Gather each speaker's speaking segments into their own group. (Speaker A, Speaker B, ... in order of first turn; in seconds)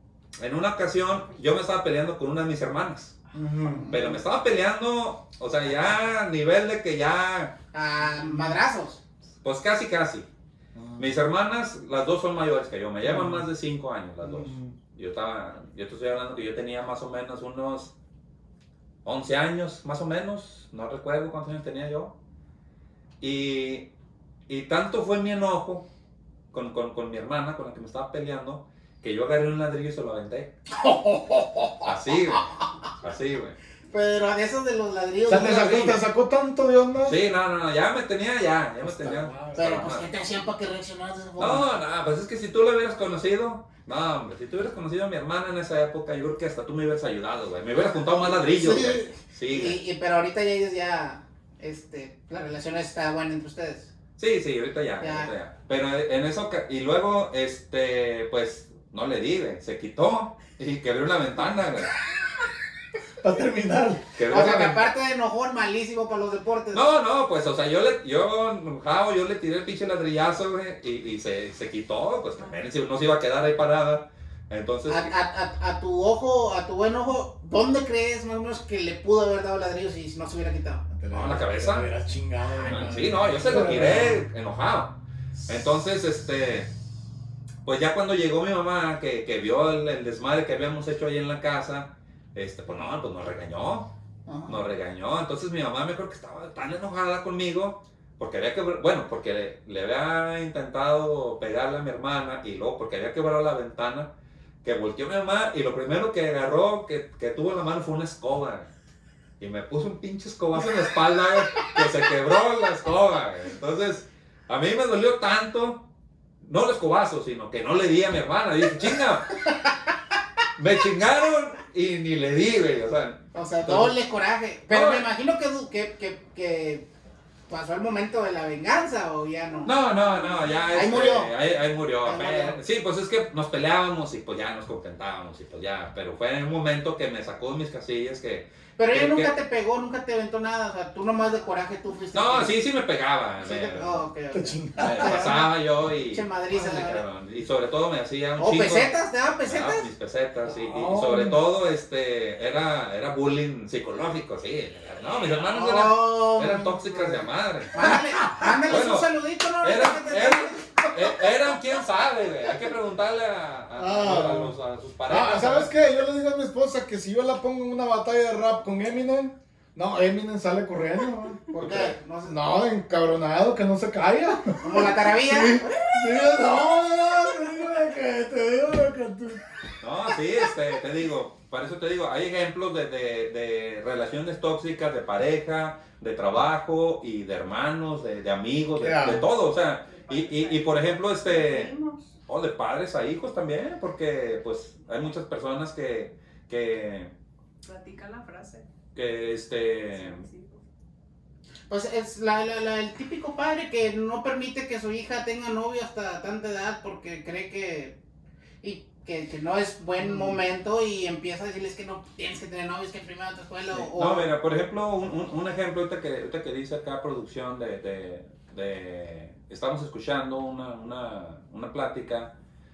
Speaker A: 0.4-3.2, 3.9-7.5, 9.4-10.3, 11.0-17.9, 19.1-22.1, 23.2-23.9, 24.5-25.9, 26.5-30.5, 31.8-33.6, 35.3-36.0, 37.0-40.1, 41.4-49.8, 54.2-61.9, 64.2-64.8, 66.7-75.1, 81.1-81.9, 82.7-85.0, 85.5-86.7, 87.7-93.9, 94.5-104.1, 104.6-108.7, 109.4-115.8, 116.4-119.4, 120.6-124.0, 124.7-125.1, 129.7-139.3, 142.1-144.1, 144.8-148.9, 149.5-165.7, 171.6-172.0, 179.8-191.7, 192.3-197.1, 198.9-200.2, 213.7-222.3
Speaker B: 3.3-3.9, 10.8-11.1, 13.0-13.5, 14.2-14.8, 30.8-31.9, 35.3-37.2, 38.8-39.7, 63.2-64.1, 81.0-84.2, 144.3-145.2, 150.5-151.4, 163.8-164.6, 165.1-171.5, 172.3-179.4, 188.8-189.3, 210.0-210.4
Speaker C: 3.6-4.2, 7.7-9.0, 33.9-36.0, 39.5-41.7, 48.3-53.9, 55.0-55.3, 64.3-66.9, 74.9-80.9, 94.3-94.6, 123.3-126.9, 127.5-129.8, 130.7-131.3, 132.1-132.6, 138.8-142.5, 143.4-145.5, 146.1-147.0, 148.4-149.9, 155.4-156.8, 157.7-160.7, 171.5-172.4, 174.6-175.9, 201.7-208.0, 208.6-214.3
Speaker D: 189.8-192.1, 197.6-198.7, 199.9-200.6